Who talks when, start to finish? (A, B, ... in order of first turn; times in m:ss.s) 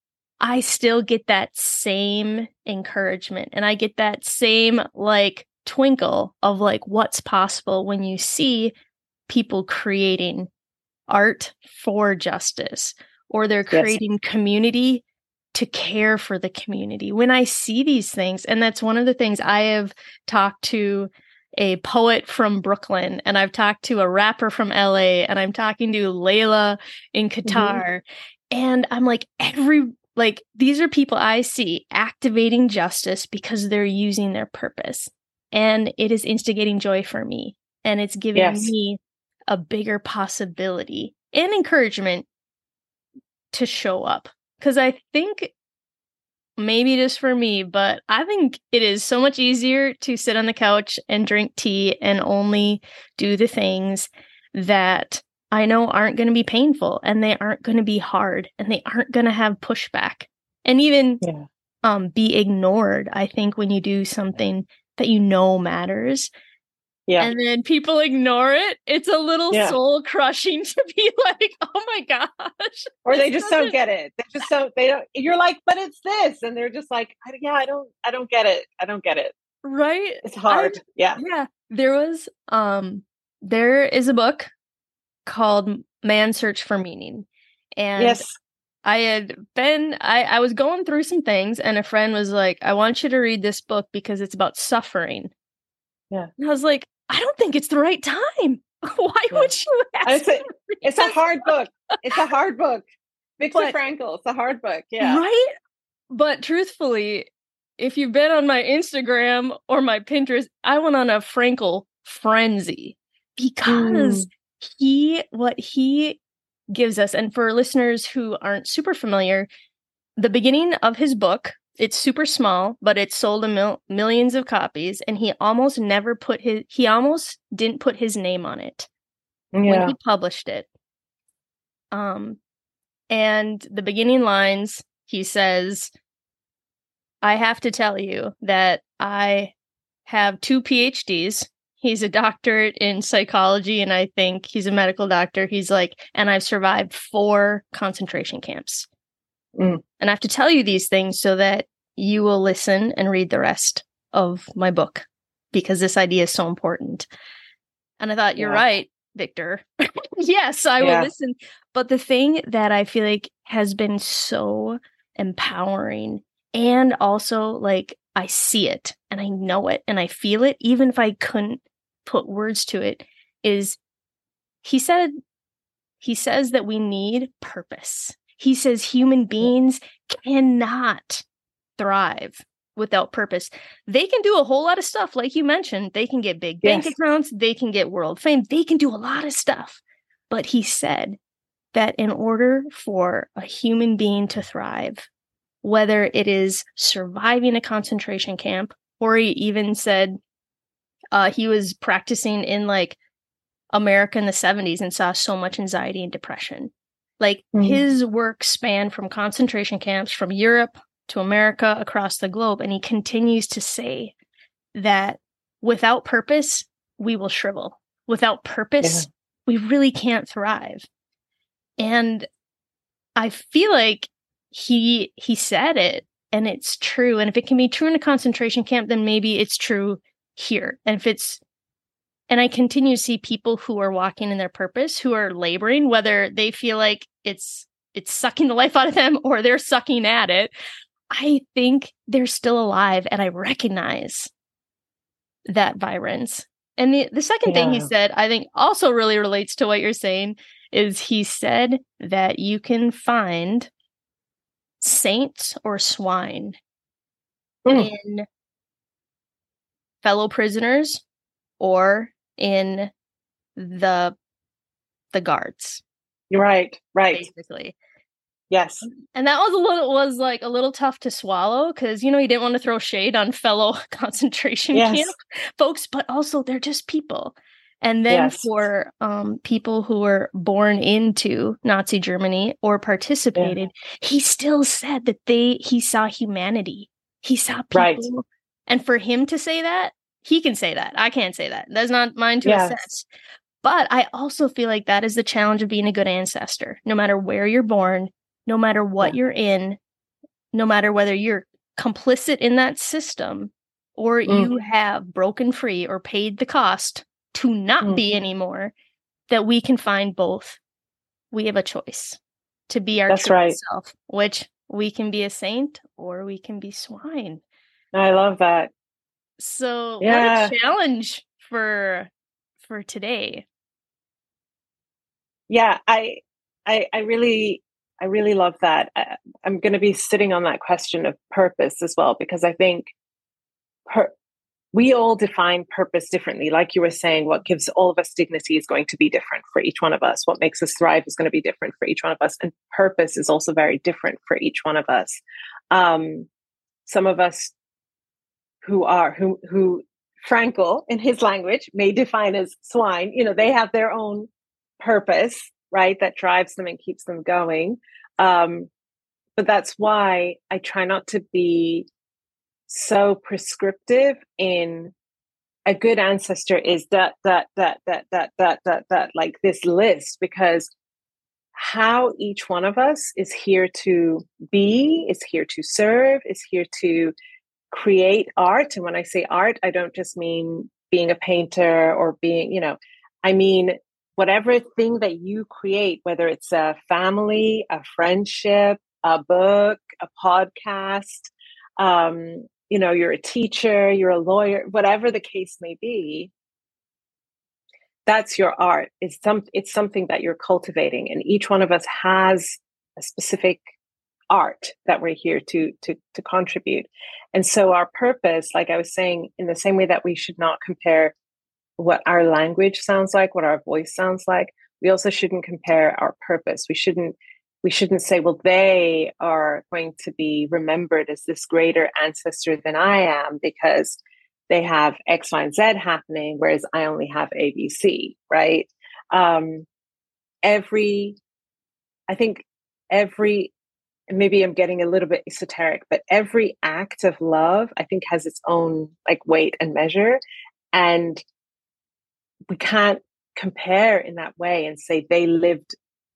0:00.4-0:08.7 A
0:09.3-0:10.5 A
0:11.1-0:42.3 A
0:13.7-0:14.0 B
0:27.4-0:27.8 B
0:38.3-0:38.7 B
0:43.5-0:45.5 A
0:46.6-1:01.2 A
1:01.8-1:06.3 A
1:07.2-1:13.7 A
1:09.5-1:09.8 B
1:13.0-1:19.3 B
1:19.6-1:24.5 A
1:20.2-1:21.2 B
1:25.2-1:27.3 A
1:27.8-1:28.2 A
1:28.0-1:28.3 B
1:28.8-1:35.3 A
1:36.4-1:41.5 A
1:40.0-1:42.8 B
1:43.4-1:45.2 B
1:45.0-1:45.5 A
1:46.1-1:47.3 A
1:47.8-1:56.2 A
1:53.6-1:54.3 B
1:56.7-1:59.5 A
2:00.2-2:08.9 A
2:09.5-2:09.9 B
2:09.6-2:10.7 A
2:11.9-2:12.4 A
2:13.1-2:15.9 A
2:17.2-2:19.5 A
2:20.0-2:28.9 A
2:29.6-2:29.8 B
2:30.0-2:37.0 A
2:38.0-2:39.6 A
2:40.2-2:53.8 A
2:40.8-2:41.1 B
2:54.6-2:55.2 A
2:56.0-3:01.2 A
3:01.8-3:11.2 A
3:06.6-3:06.9 B
3:11.7-3:15.1 A
3:15.6-3:20.2 A
3:21.1-3:23.0 A
3:23.7-3:34.1 A
3:27.5-3:27.8 B
3:34.7-3:40.9 A
3:38.8-3:39.1 B
3:41.8-3:42.3 A
3:43.2-3:51.4 A
3:52.3-4:00.5 A
4:01.1-4:04.3 A
4:05.4-4:13.7 A
4:07.4-4:07.9 B
4:14.8-4:16.6 A
4:17.6-4:17.9 B
4:17.7-4:18.2 A
4:20.0-4:21.0 A
4:21.6-4:22.9 A
4:23.6-4:24.2 A
4:25.1-4:25.8 A
4:26.3-4:27.3 B
4:27.1-4:27.8 A
4:28.5-4:28.8 B
4:29.1-4:53.1 A
4:34.7-4:35.1 B
4:38.1-4:38.6 B
4:47.7-4:48.0 B
4:52.4-4:52.8 B
4:53.6-4:59.8 A
5:00.5-5:08.7 A
5:09.3-5:10.6 A
5:11.3-5:17.4 A
5:13.1-5:13.6 B
5:17.9-5:18.7 B
5:19.4-5:22.1 A
5:20.0-5:20.5 B
5:22.6-5:23.4 A
5:25.5-5:32.9 B
5:34.7-5:45.2 B
5:45.7-5:46.3 B
5:46.8-5:47.5 B
5:48.6-5:54.3 B
5:54.8-5:58.7 B
5:59.4-6:01.9 B
6:02.7-6:04.9 B
6:05.6-6:10.7 B
6:11.5-6:17.1 B
6:17.7-6:36.3 B
6:38.0-6:43.6 B
6:44.3-6:51.1 B
6:51.8-7:04.0 B
7:04.5-7:09.7 B
7:10.4-7:11.2 B
7:12.1-7:13.5 B
7:14.1-7:20.2 B
7:20.7-7:21.2 B
7:22.5-7:25.7 B